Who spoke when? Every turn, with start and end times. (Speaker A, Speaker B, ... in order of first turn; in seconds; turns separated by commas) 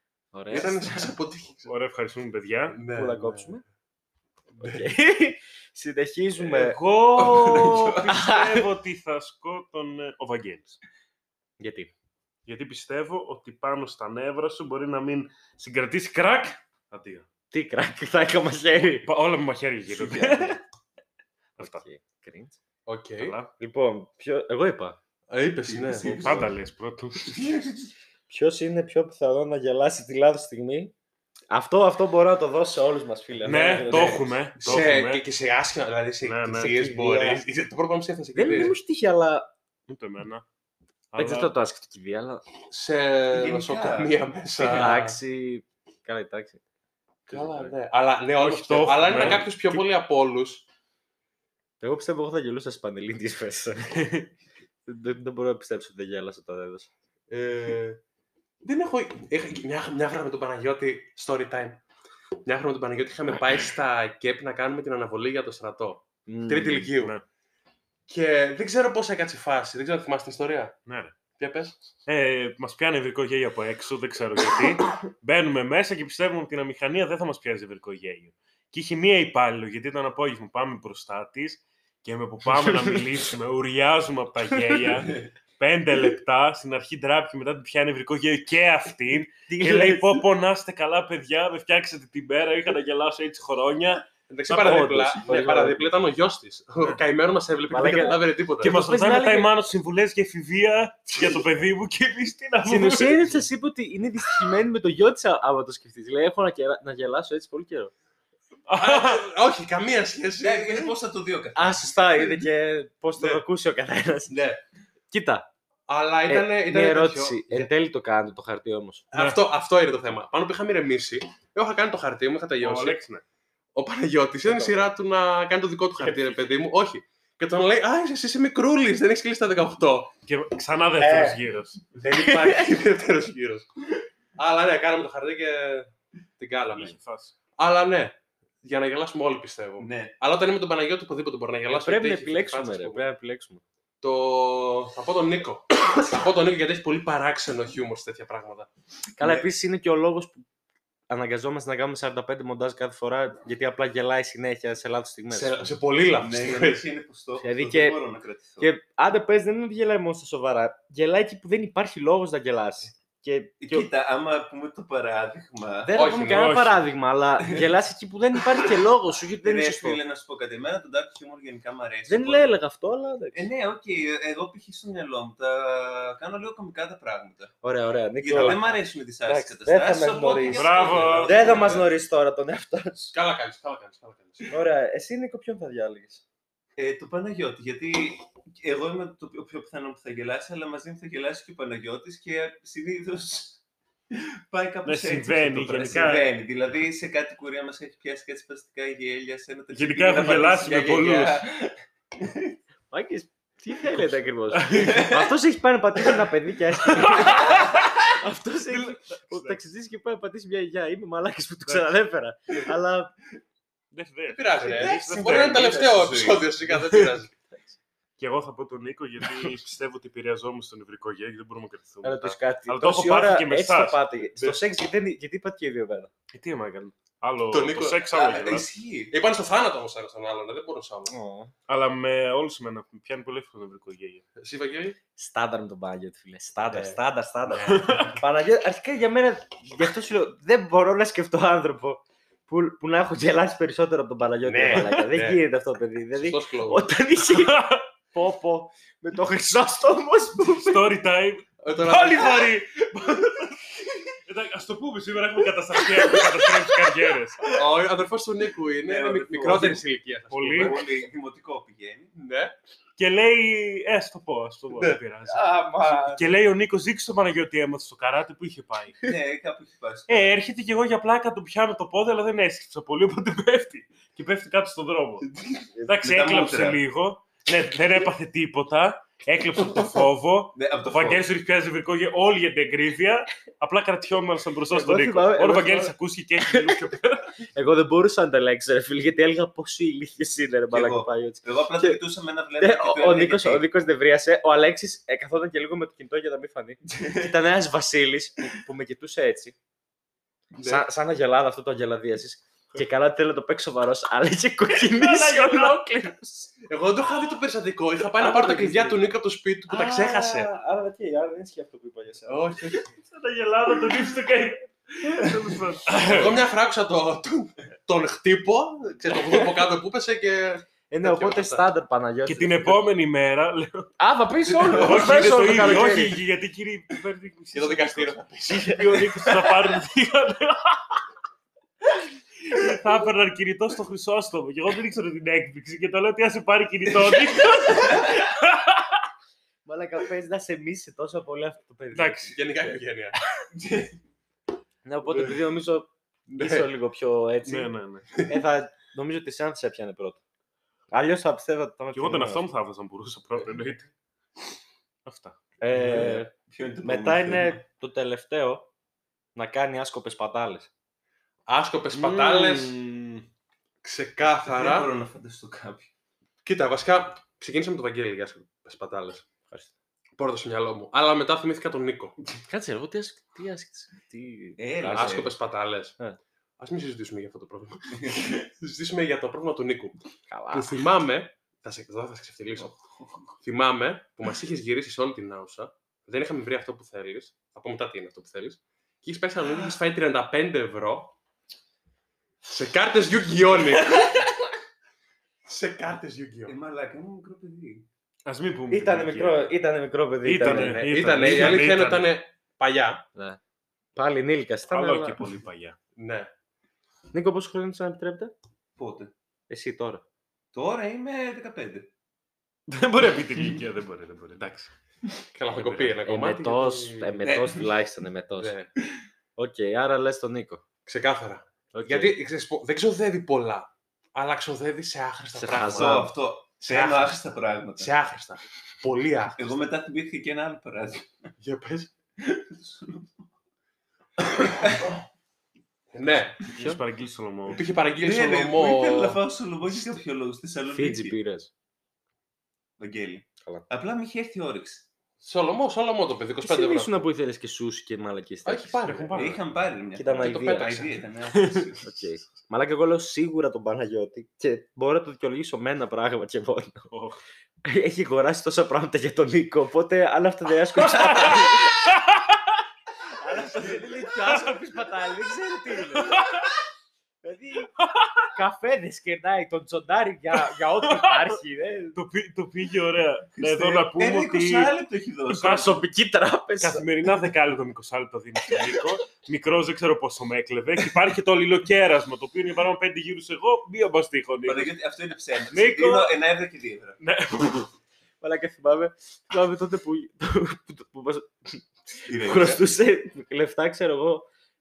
Speaker A: 0.3-1.0, Speaker B: 0.5-1.7, Speaker C: 1.6-2.8, Speaker B: 2.7-3.6, Speaker A: 2.9-3.6, Speaker B: 4.6-4.9, Speaker A: 4.6-6.8, Speaker C: 6.4-10.8, Speaker D: 7.1-8.2, Speaker A: 8.0-8.6, Speaker A: 11.6-11.9, Speaker C: 12.4-17.3, Speaker A: 17.5-19.1, Speaker C: 19.0-20.6, Speaker D: 19.9-20.6, Speaker C: 21.6-21.8, Speaker A: 21.6-22.6, Speaker B: 22.9-23.4, Speaker C: 23.2-23.5, Speaker A: 23.6-25.0, Speaker B: 25.3-26.4, Speaker D: 25.7-26.5, Speaker C: 26.2-27.4, Speaker D: 27.2-27.9, Speaker A: 28.3-30.9, Speaker A: 31.5-34.7, Speaker C: 33.4-35.2, Speaker D: 33.9-34.2, Speaker B: 34.6-38.8, Speaker C: 36.2-36.7, Speaker A: 36.6-37.4, Speaker A: 38.3-39.5, Speaker C: 39.9-40.4, Speaker C: 41.1-41.5, Speaker A: 41.1-42.4, Speaker B: 42.7-45.2, Speaker D: 43.3-44.9, Speaker A: 44.6-46.6, Speaker A: 47.3-47.7, Speaker B: 47.3-50.6, Speaker C: 48.4-49.8, Speaker A: 51.8-54.1, Speaker C: 53.9-54.3, Speaker A: 54.9-56.9, Speaker B: 57.3-58.0, Speaker B: 58.6-61.8, Speaker B: 62.4-67.1, Speaker A: 66.3-66.9, Speaker B: 68.1-70.7, Speaker C: 70.8-71.1, Speaker B: 71.4-71.8, Speaker C: 72.0-94.0, Speaker A: 82.6-83.0, Speaker A: 89.5-90.2, Speaker B: 94.3-98.7, Speaker A: 94.5-95.9, Speaker A: 97.7-99.5, Speaker C: 98.6-103.4, Speaker A: 102.6-107.9, Speaker C: 108.7-109.2, Speaker B: 108.8-110.9, Speaker D: 110.4-112.5, Speaker A: 111.5-114.4, Speaker B: 113.2-113.4, Speaker B: 114.3-114.6, Speaker A: 115.1-115.5, Speaker B: 115.9-117.7, Speaker A: 116.3-119.0, Speaker B: 119.1-123.0, Speaker C: 122.6-123.2, Speaker B: 123.7-130.1, Speaker A: 124.4-124.9, Speaker A: 126.0-126.4, Speaker C: 130.2-131.8, Speaker A: 131.0-131.4, Speaker B: 132.0-133.7, Speaker A: 132.1-132.8, Speaker B: 134.4-137.0, Speaker C: 136.7-137.3, Speaker B: 137.6-143.0, Speaker D: 139.8-140.1, Speaker A: 141.7-143.6, Speaker B: 144.0-148.7, Speaker A: 149.2-150.4, Speaker D: 149.2-149.4, Speaker A: 151.1-155.8, Speaker B: 155.3-156.8, Speaker D: 156.2-158.7, Speaker A: 157.4-158.0, Speaker A: 158.6-163.9, Speaker D: 163.6-165.9, Speaker A: 165.8-170.0, Speaker B: 165.9-166.6, Speaker C: 166.2-166.8, Speaker D: 169.4-172.6, Speaker A: 172.1-173.5, Speaker D: 173.3-177.5, Speaker A: 177.6-183.1, Speaker D: 178.2-181.9, Speaker C: 180.5-181.5, Speaker B: 180.8-181.8, Speaker B: 183.1-184.6, Speaker A: 184.5-186.2, Speaker D: 186.8-202.6, Speaker C: 194.8-196.3, Speaker C: 199.7-201.4, Speaker A: 202.9-213.1, Speaker C: 204.5-205.1, Speaker D: 204.7-205.3, Speaker C: 206.8-207.9, Speaker D: 207.0-207.8, Speaker C: 208.7-209.6, Speaker C: 211.7-211.9, Speaker C: 213.9-215.5, Speaker B: 214.3-217.3, Speaker D: 214.6-216.5, Speaker C: 216.8-217.1, Speaker C: 218.2-224.0, Speaker A: 222.0-226.1, Speaker C: 226.3-228.7, Speaker B: 227.5-228.0, Speaker D: 228.1-229.1, Speaker B: 229.1-231.1, Speaker A: 231.1-231.5, Speaker C: 231.7-234.2, Speaker B: 234.3-235.0, Speaker A: 235.2-250.9, Speaker B: 236.6-238.2, Speaker C: 237.7-238.2, Speaker B: 244.4-245.4, Speaker B: 246.2-246.9, Speaker C: 247.3-247.8, Speaker C: 250.6-253.5, Speaker B: 251.6-252.5, Speaker C: 254.2-257.4, Speaker D: 257.4-257.6, Speaker B: 257.4-260.9, Speaker D: 258.8-259.8, Speaker C: 260.3-260.8, Speaker D: 260.6-262.1, Speaker B: 262.1-262.5, Speaker C: 263.0-269.0, Speaker D: 265.4-266.2, Speaker A: 265.5-266.1, Speaker D: 269.0-270.4, Speaker C: 270.1-275.3, Speaker D: 275.2-276.8, Speaker C: 275.9-287.3, Speaker D: 280.5-281.2, Speaker A: 284.7-286.8, Speaker A: 287.5-292.0, Speaker D: 290.7-293.6, Speaker A: 292.6-299.5, Speaker D: 296.9-297.3, Speaker B: 300.5-300.9, Speaker A: 300.6-306.5, Speaker C: 304.8-305.8, Speaker B: 306.7-310.5, Speaker A: 308.0-309.0, Speaker A: 309.7-312.8, Speaker B: 312.3-312.9, Speaker C: 313.0-316.4, Speaker A: 315.0-315.7, Speaker B: 316.0-321.7, Speaker A: 320.9-322.8, Speaker C: 322.2-323.9, Speaker A: 324.0-326.2, Speaker D: 324.5-325.9, Speaker C: 324.7-328.2, Speaker B: 327.5-328.9, Speaker A: 328.4-329.5, Speaker C: 328.8-331.0, Speaker C: 332.4-339.0, Speaker D: 337.0-338.2, Speaker A: 339.6-342.5, Speaker C: 341.9-342.3, Speaker B: 342.3-343.1, Speaker D: 343.5-344.0, Speaker A: 344.8-350.2, Speaker B: 346.3-346.7, Speaker C: 347.4-348.1, Speaker A: 350.9-352.4, Speaker C: 351.9-353.9, Speaker C: 355.1-355.4, Speaker A: 355.6-356.3, Speaker D: 355.7-357.6, Speaker A: 356.8-358.7, Speaker A: 359.3-360.7, Speaker B: 361.5-362.7, Speaker C: 361.9-363.3, Speaker B: 363.8-364.9, Speaker D: 364.4-365.9, Speaker B: 366.4-369.2, Speaker B: 370.2-372.2, Speaker A: 372.4-375.3, Speaker D: 374.6-375.3, Speaker B: 374.9-375.9, Speaker B: 376.6-380.0, Speaker D: 377.9-378.4, Speaker A: 380.3-380.7, Speaker B: 380.5-382.7, Speaker D: 382.6-383.3, Speaker B: 383.4-391.1, Speaker B: 392.4-394.2, Speaker B: 395.4-396.5, Speaker D: 396.5-397.9, Speaker C: 398.2-399.5, Speaker A: 398.7-401.7, Speaker C: 400.2-402.1, Speaker B: 400.4-403.0, Speaker A: 403.1-403.4, Speaker A: 403.9-405.2, Speaker C: 404.7-405.8, Speaker B: 405.9-406.3, Speaker A: 407.1-408.3, Speaker D: 408.8-409.1, Speaker A: 409.5-410.0, Speaker D: 410.5-411.9, Speaker C: 412.7-414.7, Speaker B: 415.3-417.3, Speaker A: 415.5-418.5, Speaker D: 417.2-417.7, Speaker B: 418.4-418.7, Speaker A: 419.4-420.6, Speaker B: 420.9-427.2, Speaker A: 421.7-422.1, Speaker A: 425.3-426.1, Speaker D: 425.6-427.9, Speaker B: 427.8-429.6, Speaker D: 429.4-431.2, Speaker B: 431.4-431.9, Speaker D: 432.2-433.2, Speaker D: 434.2-435.0, Speaker B: 435.9-436.5, Speaker C: 436.5-437.6, Speaker A: 436.5-436.8, Speaker B: 437.5-439.2, Speaker D: 438.0-441.2, Speaker A: 440.7-441.5, Speaker D: 442.8-444.9, Speaker B: 445.2-447.0, Speaker A: 446.4-449.0, Speaker B: 448.4-449.4, Speaker C: 448.8-449.4, Speaker D: 449.1-452.0, Speaker A: 449.9-450.7, Speaker B: 450.1-451.0, Speaker C: 451.3-451.6, Speaker A: 451.8-456.9, Speaker C: 456.9-457.2, Speaker A: 457.6-461.9, Speaker C: 460.8-462.4, Speaker A: 463.1-466.2, Speaker C: 464.3-464.6, Speaker C: 465.9-466.5, Speaker A: 467.2-467.7, Speaker C: 467.8-468.3, Speaker A: 468.3-472.0, Speaker C: 470.8-471.4, Speaker C: 471.9-474.7, Speaker D: 473.4-475.8, Speaker C: 475.3-475.7, Speaker A: 475.4-476.9, Speaker C: 476.6-484.7, Speaker D: 484.4-487.0, Speaker C: 485.5-486.1, Speaker C: 487.0-487.7, Speaker A: 488.2-494.3, Speaker D: 492.0-492.6